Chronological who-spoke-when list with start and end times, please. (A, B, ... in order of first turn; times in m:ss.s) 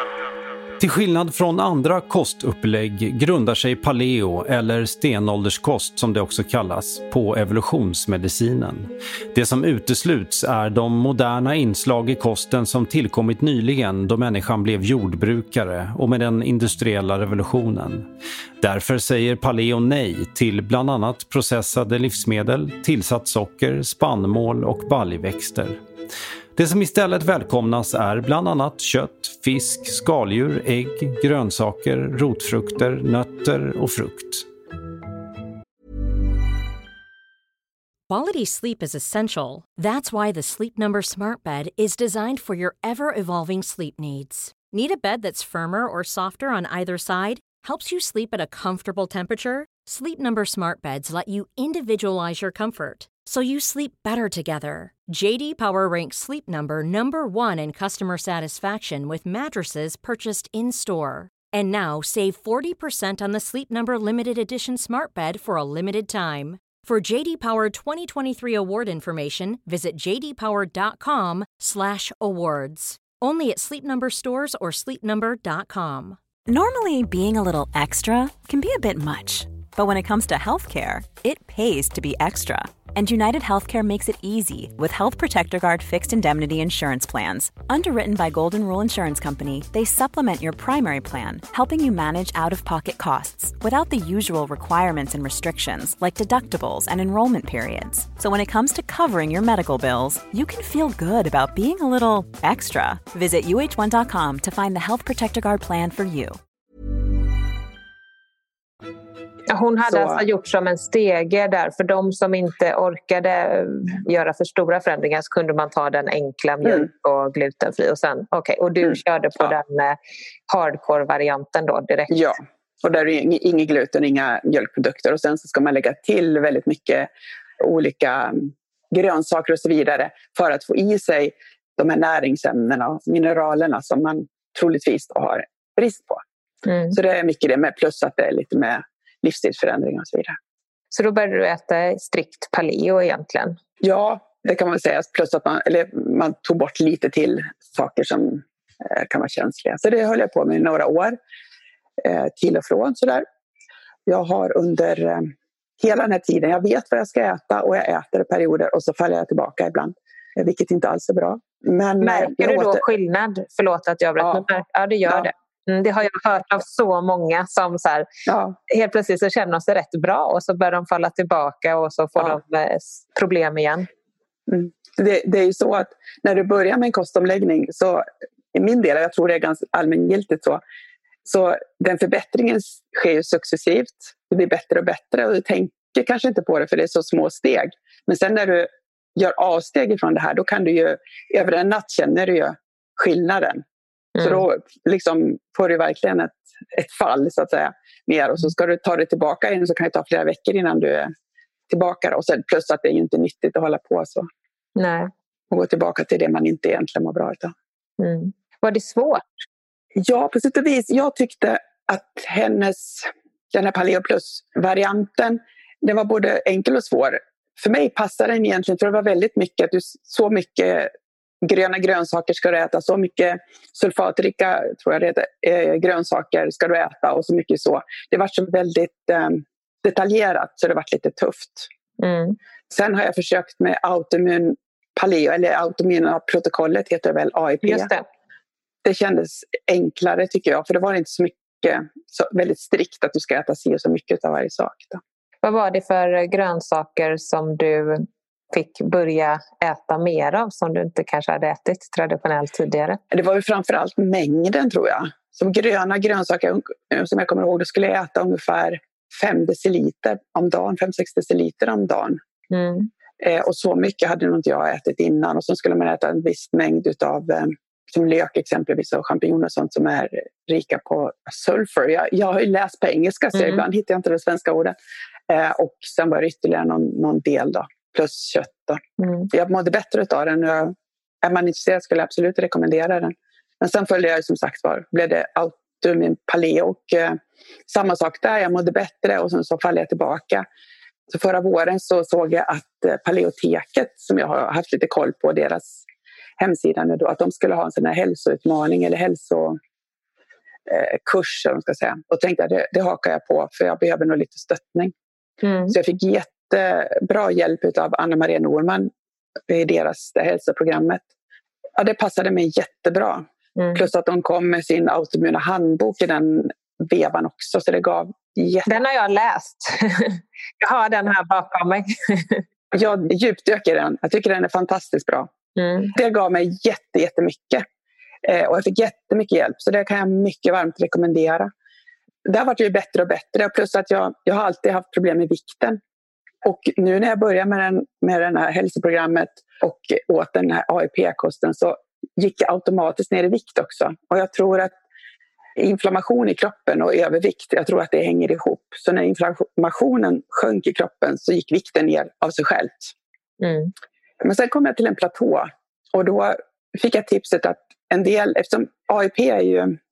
0:00.8-0:18.1 A
0:18.6-0:25.8 A
0:26.6-0:34.5 A
0:38.1-1:16.2 B
1:16.5-1:46.4 C
1:49.5-2:00.0 D
1:49.9-1:50.2 E
1:58.8-1:59.5 E
2:00.5-2:02.2 D
2:02.1-2:07.1 E
2:07.6-2:16.2 E
2:16.6-2:17.0 D
2:16.9-2:20.4 E
2:20.9-2:23.6 D
2:23.8-2:31.2 E
2:32.0-2:33.2 E
2:34.1-2:42.9 E
2:42.0-2:48.1 D
2:44.2-2:44.4 E
2:48.3-2:48.6 E
2:48.7-2:53.9 D
2:54.5-3:00.6 E
3:01.2-3:13.6 E
3:14.2-3:14.4 D
3:14.2-3:21.1 E
3:21.7-3:24.3 E
3:24.8-3:25.1 D
3:25.5-3:27.5 E
3:28.0-3:29.2 D
3:30.0-3:51.7 E
3:52.0-3:52.4 D
3:52.7-3:57.9 E
3:57.6-3:58.0 D
3:58.8-4:05.0 E
4:05.4-4:13.0 D
4:13.1-4:22.2 E
4:22.5-4:22.9 D
4:23.2-4:34.8 E
4:35.3-4:50.4 E
4:39.0-4:39.3 D
4:51.1-4:55.8 E
4:56.4-4:59.6 E
5:00.6-5:04.9 E
5:05.4-5:05.8 D
5:05.7-5:08.9 E
5:09.5-5:11.1 E
5:11.8-5:18.8 E
5:13.6-5:13.9 D
5:18.6-5:22.4 D
5:22.7-5:25.3 E
5:25.6-5:26.0 D
5:25.9-5:27.6 E
5:28.2-5:31.5 E
5:32.2-5:35.8 E
5:36.4-5:44.7 E
5:45.6-5:52.9 E
5:53.4-5:53.7 D
5:54.2-5:59.8 E